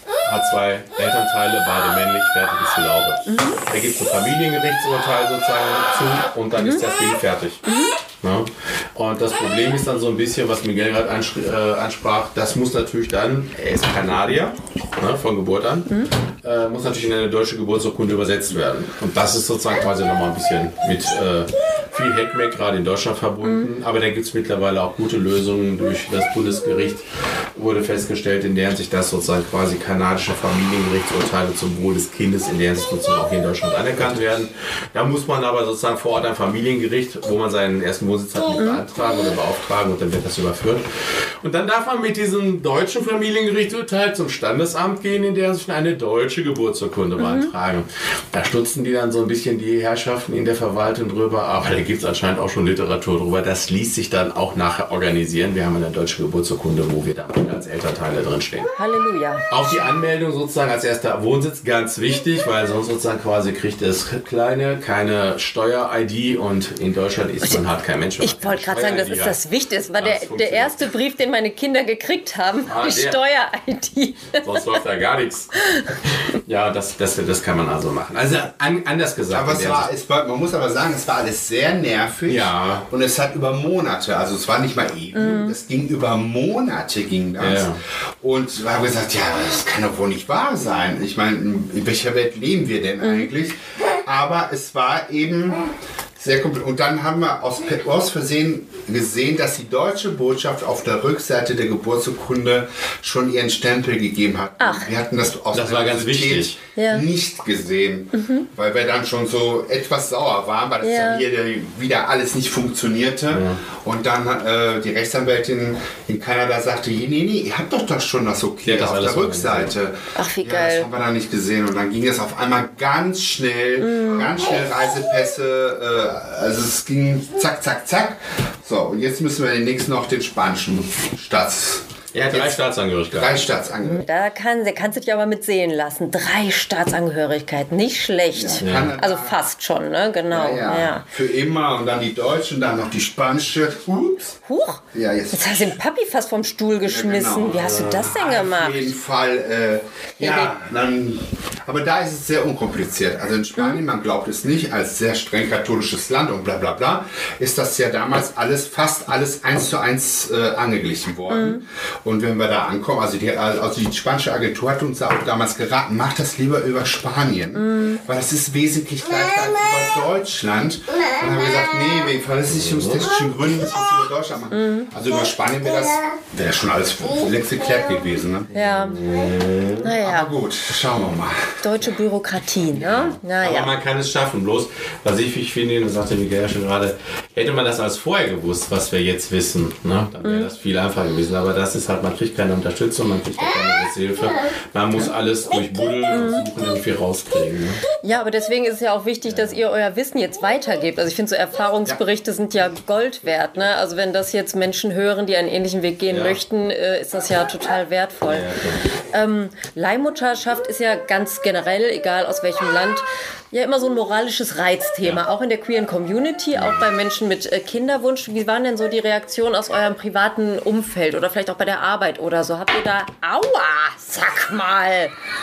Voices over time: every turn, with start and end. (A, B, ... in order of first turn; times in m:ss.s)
0:00.2-0:07.6 A
0:03.3-0:03.6 B
0:07.6-0:07.9 B
0:08.2-0:58.7 A
0:47.2-0:47.5 B
0:58.8-0:59.4 B
0:59.5-1:09.4 A
1:08.2-1:14.7 B
1:10.0-1:10.8 A
1:12.6-1:13.2 A
1:14.4-1:19.9 A
1:15.6-1:15.9 B
1:19.3-1:35.6 C
1:22.3-1:22.9 A
1:25.2-1:25.6 B
1:27.4-1:27.8 A
1:33.0-1:33.3 B
1:36.2-2:14.0 C
1:44.6-1:44.9 B
1:45.5-1:46.6 A
1:46.8-1:47.0 B
1:48.1-1:48.4 B
1:50.8-1:51.2 B
1:53.3-1:53.6 A
1:58.6-1:59.7 A
2:00.1-2:00.9 B
2:03.8-2:04.3 B
2:12.1-2:13.4 A
2:13.8-2:21.0 B
2:18.3-2:19.4 C
2:18.6-2:18.9 A
2:20.3-2:24.4 C
2:24.4-2:28.9 B
2:24.9-2:25.8 C
2:26.8-2:58.5 C
2:27.5-2:28.1 A
2:30.2-2:30.5 B
2:41.3-2:41.6 B
2:47.6-2:48.0 B
2:52.6-2:53.0 A
2:54.5-2:54.9 B
2:58.5-2:59.0 B
2:58.5-2:59.9 A
2:59.8-3:00.3 B
3:00.0-3:01.6 C
3:01.6-3:03.7 B
3:02.7-3:17.8 A
3:10.2-3:10.5 B
3:16.1-3:16.4 B
3:18.0-3:28.5 B
3:19.3-3:19.6 A
3:26.1-3:26.4 A
3:28.2-3:28.8 A
3:29.1-3:45.1 B